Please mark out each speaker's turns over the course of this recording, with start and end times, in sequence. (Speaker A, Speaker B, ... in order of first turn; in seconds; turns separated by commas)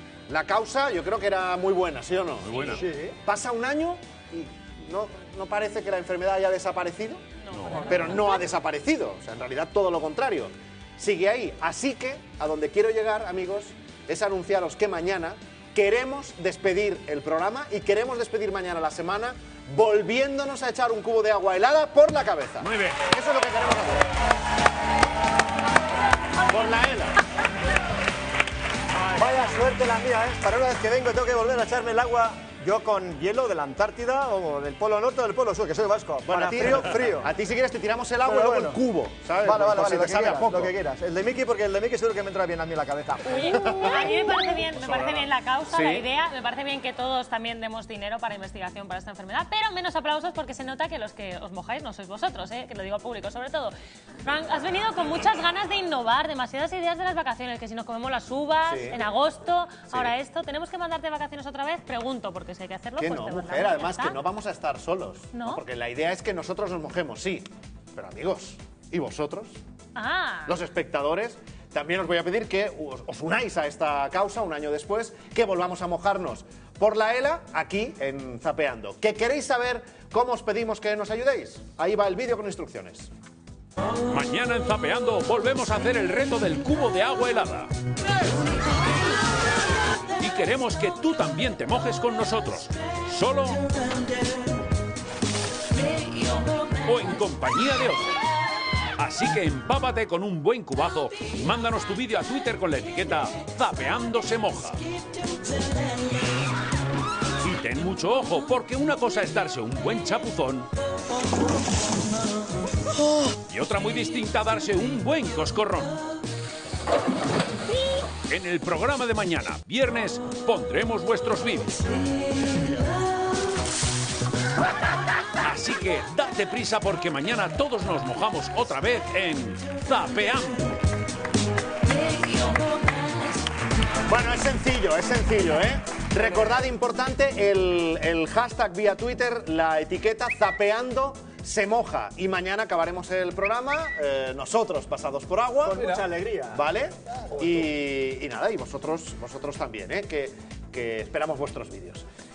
Speaker A: 0.3-7.2, Speaker B: 2.4-2.8, Speaker C: 2.8-3.1, Speaker B: 7.5-7.8, Speaker D: 7.5-8.0, Speaker A: 7.8-24.1, Speaker B: 22.6-23.0, Speaker A: 26.4-27.2, Speaker C: 29.1-37.3, Speaker A: 36.2-40.7, Speaker C: 38.2-38.8, Speaker C: 39.4-43.8, Speaker D: 43.2-64.2, Speaker A: 43.7-44.0, Speaker A: 44.7-46.0, Speaker A: 58.7-59.0, Speaker A: 59.9-60.1, Speaker A: 63.0-69.6, Speaker D: 65.3-65.6, Speaker D: 69.9-70.5, Speaker A: 70.5-83.1, Speaker B: 84.1-87.7, Speaker B: 90.2-93.7, Speaker B: 96.8-98.1, Speaker B: 99.0-104.8, Speaker B: 107.4-110.7, Speaker B: 113.5-116.0, Speaker B: 118.3-121.8, Speaker B: 125.4-130.8, Speaker A: 134.1-146.0, Speaker C: 145.7-146.6, Speaker A: 146.5-152.1